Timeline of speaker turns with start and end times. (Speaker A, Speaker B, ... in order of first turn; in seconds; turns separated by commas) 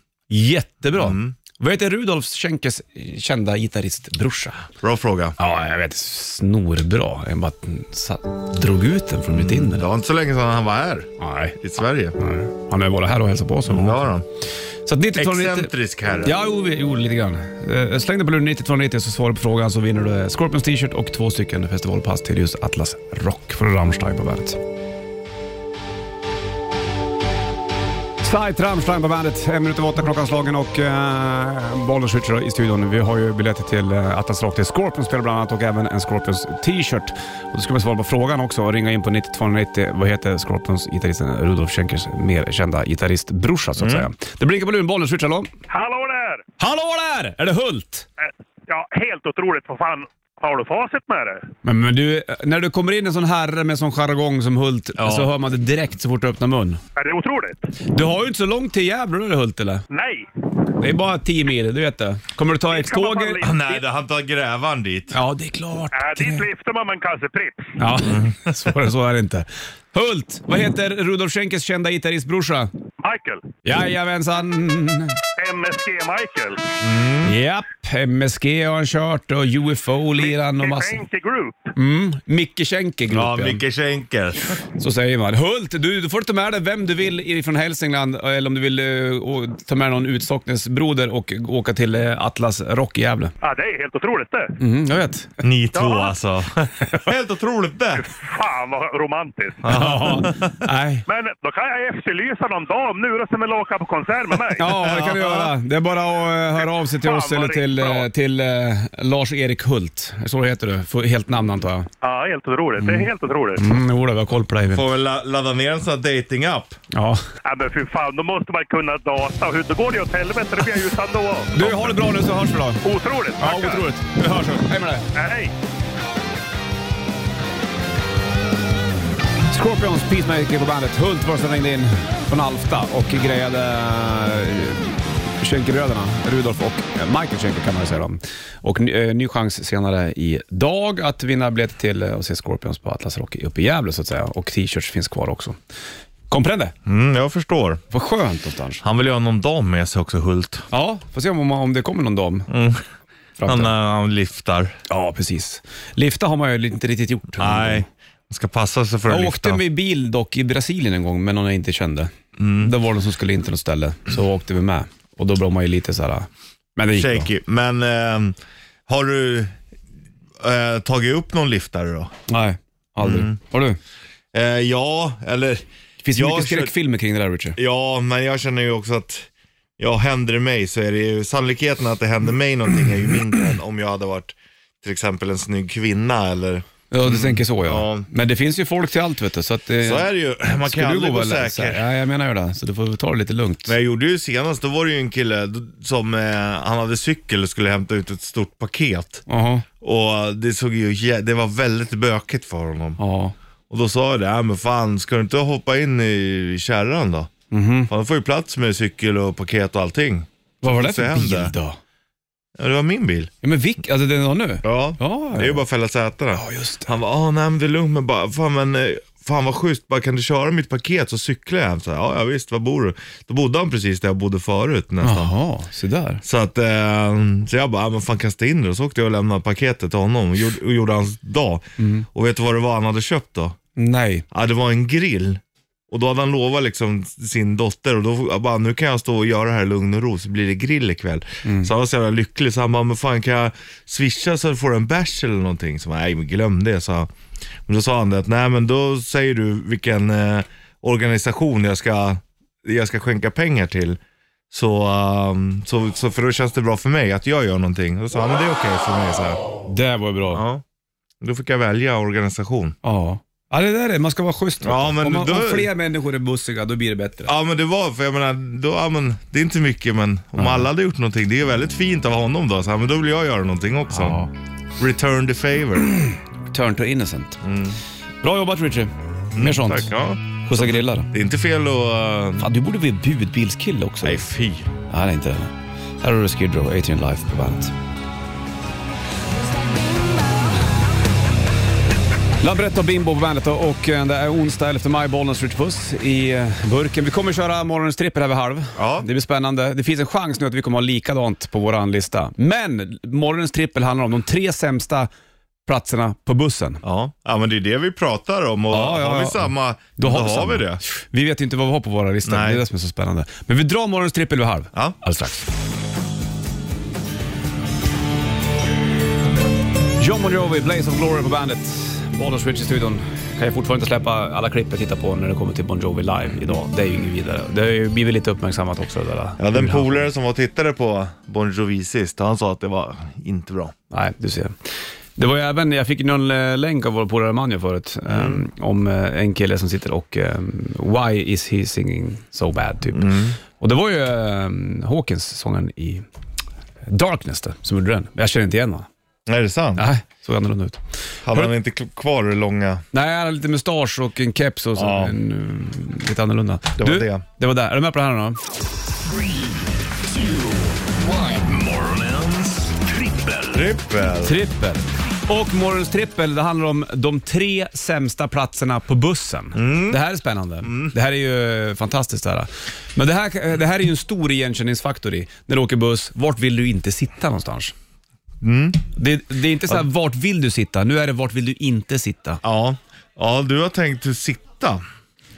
Speaker A: 0.3-4.6, Speaker B: 0.9-1.3, Speaker B: 4.8-5.3, Speaker A: 5.4-9.8, Speaker B: 9.3-12.2, Speaker A: 11.2-11.6, Speaker A: 12.2-14.1, Speaker B: 13.7-14.2, Speaker A: 14.8-15.7, Speaker B: 15.2-16.4, Speaker A: 16.2-24.6, Speaker A: 28.2-45.5, Speaker B: 43.8-44.1, Speaker C: 45.7-46.4, Speaker A: 46.6-48.0, Speaker C: 48.2-51.5, Speaker A: 51.6-56.8, Speaker B: 55.0-55.3, Speaker C: 57.0-57.6, Speaker A: 57.9-59.8, Speaker C: 59.9-60.3, Speaker A: 60.8-63.5, Speaker C: 62.7-63.8, Speaker B: 63.4-65.2, Speaker A: 65.1-66.5, Speaker C: 65.9-67.8, Speaker A: 67.8-72.7, Speaker B: 68.1-68.5, Speaker C: 73.0-73.5, Speaker A: 73.6-75.2, Speaker C: 75.4-76.7, Speaker B: 76.8-77.3, Speaker A: 77.2-81.0, Speaker C: 80.2-81.7, Speaker A: 81.8-83.6, Speaker B: 83.1-84.6, Speaker A: 84.8-93.3, Speaker C: 93.4-94.5, Speaker A: 94.6-95.4, Speaker B: 95.4-98.1, Speaker C: 98.0-99.7, Speaker B: 99.6-100.5, Speaker A: 99.7-101.0, Speaker C: 101.1-104.7, Speaker A: 104.5-111.9, Speaker B: 104.7-105.5, Speaker C: 106.6-108.1, Speaker C: 112.0-113.6, Speaker A: 112.8-114.8, Speaker B: 114.7-116.8, Speaker A: 116.9-117.2, Speaker C: 117.4-121.5, Speaker A: 121.5-122.8, Speaker B: 121.6-122.0, Speaker C: 122.8-123.9, Speaker A: 123.4-125.1, Speaker C: 125.1-125.5, Speaker A: 129.5-145.6, Speaker A: 146.3-146.7, Speaker B: 146.8-147.8, Speaker A: 147.9-148.8, Speaker B: 148.8-150.7, Speaker A: 150.7-152.5, Speaker B: 152.5-152.8, Speaker A: 153.4-153.7, Speaker B: 153.4-154.8, Speaker A: 154.9-157.8, Speaker B: 157.4-159.6, Speaker A: 159.1-167.3, Speaker B: 162.4-162.7, Speaker B: 166.9-169.6, Speaker B: 170.4-172.1, Speaker A: 172.3-173.8, Speaker B: 173.0-173.3, Speaker B: 174.3-176.7, Speaker A: 176.0-177.6, Speaker B: 177.6-188.1, Speaker A: 186.9-193.7, Speaker B: 189.8-191.8, Speaker B: 193.7-199.2, Speaker A: 199.3-199.7, Speaker B: 199.8-203.0, Speaker A: 203.0-203.3, Speaker B: 203.7-207.3, Speaker A: 207.5-207.9, Speaker B: 207.9-211.5, Speaker A: 210.6-211.8, Speaker B: 212.6-213.3, Speaker A: 213.4-215.6, Speaker B: 214.6-225.3, Speaker A: 216.3-216.9, Speaker A: 225.0-226.2, Speaker B: 226.2-233.6, Speaker A: 231.8-232.1, Speaker A: 233.8-234.2, Speaker B: 234.3-247.1, Speaker A: 241.4-241.7, Speaker B: 247.7-254.0, Speaker B: 254.5-259.4, Speaker A: 259.6-260.4, Speaker B: 260.3-260.6, Speaker B: 261.2-262.8, Speaker A: 262.8-267.3, Speaker B: 264.6-265.7, Speaker B: 267.2-274.2, Speaker A: 270.4-270.7, Speaker A: 273.9-274.3, Speaker B: 274.8-275.9, Speaker A: 276.5-277.4, Speaker B: 277.4-277.8, Speaker A: 278.2-279.9, Speaker B: 279.3-282.5, Speaker A: 280.4-281.1, Speaker A: 282.4-284.2, Speaker B: 284.0-284.7, Speaker A: 284.9-287.7, Speaker A: 292.4-305.1, Speaker B: 298.8-299.1, Speaker A: 305.6-306.8, Speaker B: 306.8-310.8, Speaker A: 308.7-315.5, Speaker B: 312.2-312.6, Speaker A: 320.0-330.0, Speaker B: 329.4-333.7, Speaker A: 333.9-346.0, Speaker B: 338.1-338.4, Speaker B: 342.9-343.4, Speaker A: 346.9-348.9, Speaker B: 349.2-349.9, Speaker A: 349.8-350.8, Speaker B: 351.2-352.8, Speaker A: 352.9-358.4, Speaker B: 354.7-355.1, Speaker B: 356.8-357.2, Speaker D: 359.0-363.7, Speaker B: 363.5-364.4, Speaker A: 364.2-377.7, Speaker B: 369.5-370.0, Speaker B: 370.6-370.9, Speaker B: 378.4-378.8, Speaker A: 378.9-382.4, Speaker B: 382.4-384.8